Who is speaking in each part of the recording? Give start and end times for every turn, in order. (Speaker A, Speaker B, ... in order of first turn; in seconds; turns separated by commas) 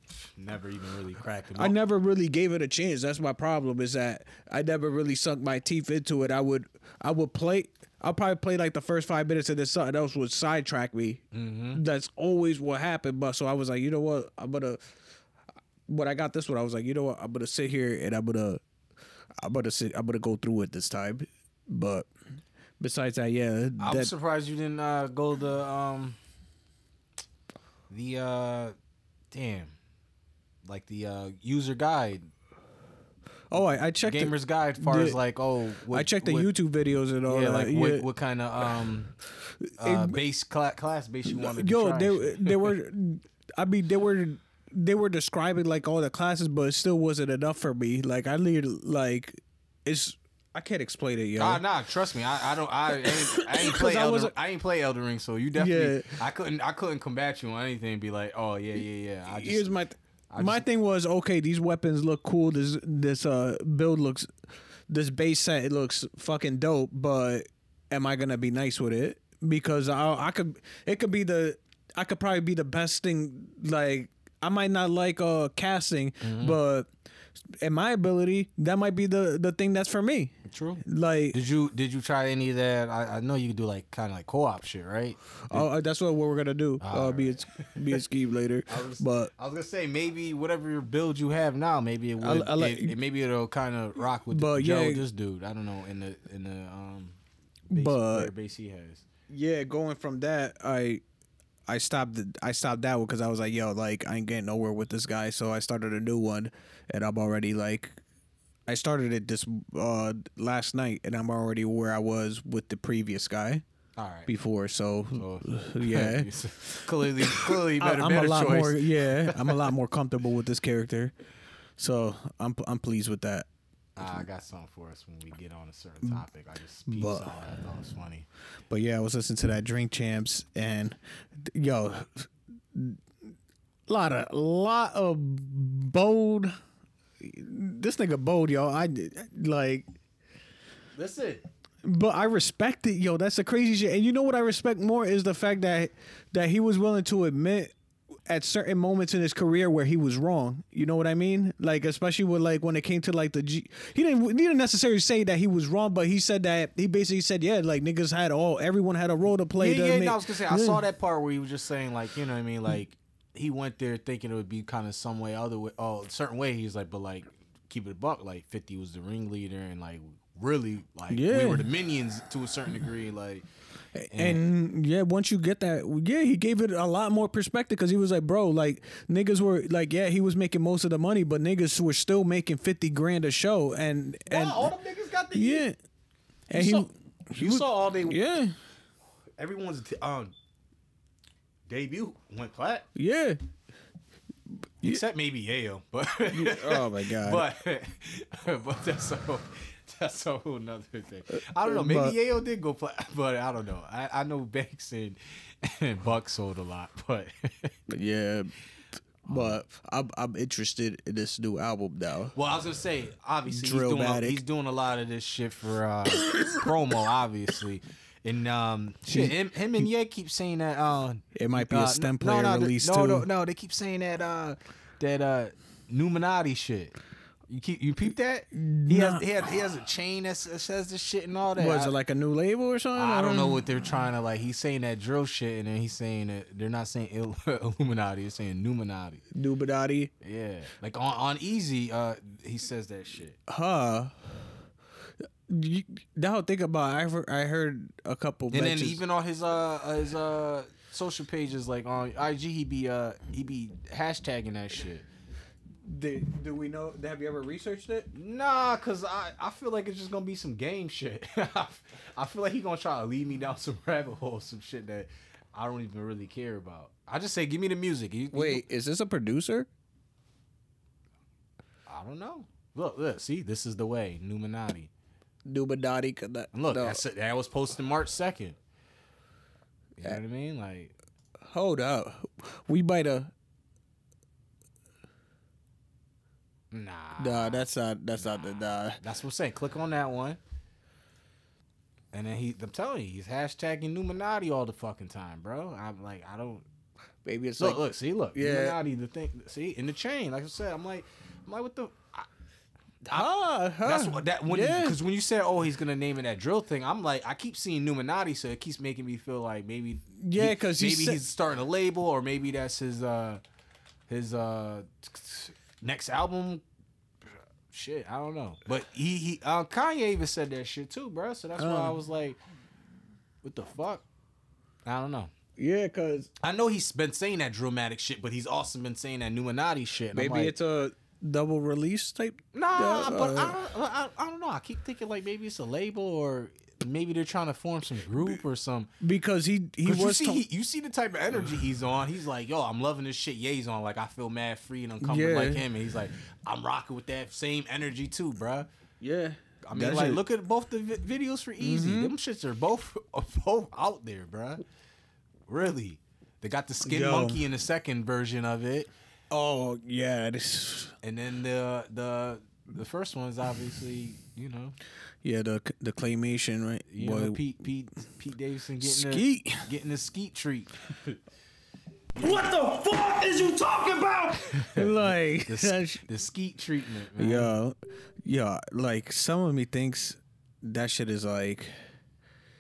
Speaker A: 0.2-1.8, Speaker B: 1.6-14.9, Speaker A: 11.3-11.8, Speaker B: 15.9-18.6, Speaker B: 19.4-22.1, Speaker B: 22.8-24.1, Speaker A: 23.8-26.2, Speaker A: 27.9-28.7, Speaker A: 29.3-29.8, Speaker A: 30.6-32.3, Speaker B: 33.5-35.2, Speaker A: 34.0-36.5, Speaker B: 35.9-38.1, Speaker A: 37.3-39.2, Speaker B: 39.4-40.2, Speaker A: 39.8-42.7, Speaker B: 41.3-51.6, Speaker A: 51.4-59.7, Speaker B: 53.0-54.3, Speaker B: 55.5-56.1, Speaker B: 59.3-76.9, Speaker A: 60.3-60.6, Speaker A: 76.2-76.6, Speaker B: 77.6-81.4, Speaker A: 80.5-85.7, Speaker B: 85.5-89.3, Speaker A: 86.8-88.0, Speaker A: 88.7-97.2, Speaker B: 92.2-93.0, Speaker B: 94.3-95.0, Speaker B: 97.7-98.3, Speaker A: 97.7-99.0, Speaker B: 99.3-101.0, Speaker B: 101.7-108.0, Speaker B: 108.7-113.6, Speaker A: 114.0-114.3, Speaker B: 114.3-121.1, Speaker A: 115.1-119.7, Speaker B: 121.8-123.5, Speaker A: 124.0-128.3, Speaker B: 126.9-127.4, Speaker B: 128.7-133.0, Speaker B: 133.9-136.6, Speaker B: 137.2-139.9, Speaker A: 140.9-141.4, Speaker B: 141.8-147.7, Speaker B: 148.3-160.8, Speaker A: 159.6-173.5, Speaker B: 171.1-171.7, Speaker B: 174.0-184.7, Speaker A: 174.1-174.4, Speaker A: 184.3-185.7, Speaker B: 185.3-185.8, Speaker B: 186.5-188.6, Speaker A: 186.5-188.2, Speaker A: 189.4-190.3, Speaker A: 191.7-192.9, Speaker B: 192.9-193.4, Speaker A: 194.8-207.8, Speaker B: 196.3-197.5, Speaker B: 201.6-202.2, Speaker B: 207.9-208.5, Speaker B: 209.3-212.3, Speaker A: 209.3-209.6, Speaker A: 212.3-227.0, Speaker B: 213.5-214.4, Speaker B: 219.1-219.9, Speaker B: 221.3-223.3, Speaker A: 227.5-231.9, Speaker B: 228.5-229.2, Speaker B: 231.6-233.7, Speaker A: 233.0-239.2, Speaker B: 239.3-240.1, Speaker A: 240.2-243.4, Speaker B: 243.5-244.5, Speaker B: 245.5-249.0, Speaker A: 248.5-255.1, Speaker B: 255.8-258.1, Speaker A: 258.1-268.6, Speaker B: 268.3-269.7, Speaker A: 271.9-274.9, Speaker B: 275.5-277.0, Speaker A: 276.5-278.6, Speaker A: 280.0-280.9, Speaker B: 281.5-283.3, Speaker A: 286.7-290.4, Speaker B: 287.2-289.0, Speaker A: 292.1-296.7, Speaker B: 297.2-297.8, Speaker A: 297.6-302.3, Speaker B: 298.3-298.8, Speaker B: 303.1-305.0, Speaker A: 303.8-313.4, Speaker B: 310.2-311.2, Speaker A: 314.1-316.6, Speaker A: 317.7-322.4, Speaker B: 321.6-322.0, Speaker A: 323.4-324.1, Speaker A: 324.9-325.3, Speaker B: 325.6-326.3, Speaker A: 326.4-330.5, Speaker B: 330.1-333.6, Speaker A: 332.5-338.9, Speaker B: 339.0-340.4, Speaker A: 339.8-348.7, Speaker B: 345.0-345.6, Speaker B: 349.0-350.2, Speaker A: 349.6-354.6, Speaker B: 351.6-352.1, Speaker A: 355.5-358.9, Speaker B: 356.9-357.4, Speaker B: 359.3-360.9, Speaker A: 361.0-364.8, Speaker B: 365.2-367.4, Speaker A: 366.9-371.2, Speaker B: 368.8-369.7, Speaker C: 372.2-374.5, Speaker A: 374.5-377.5, Speaker B: 374.8-376.1, Speaker B: 377.2-381.8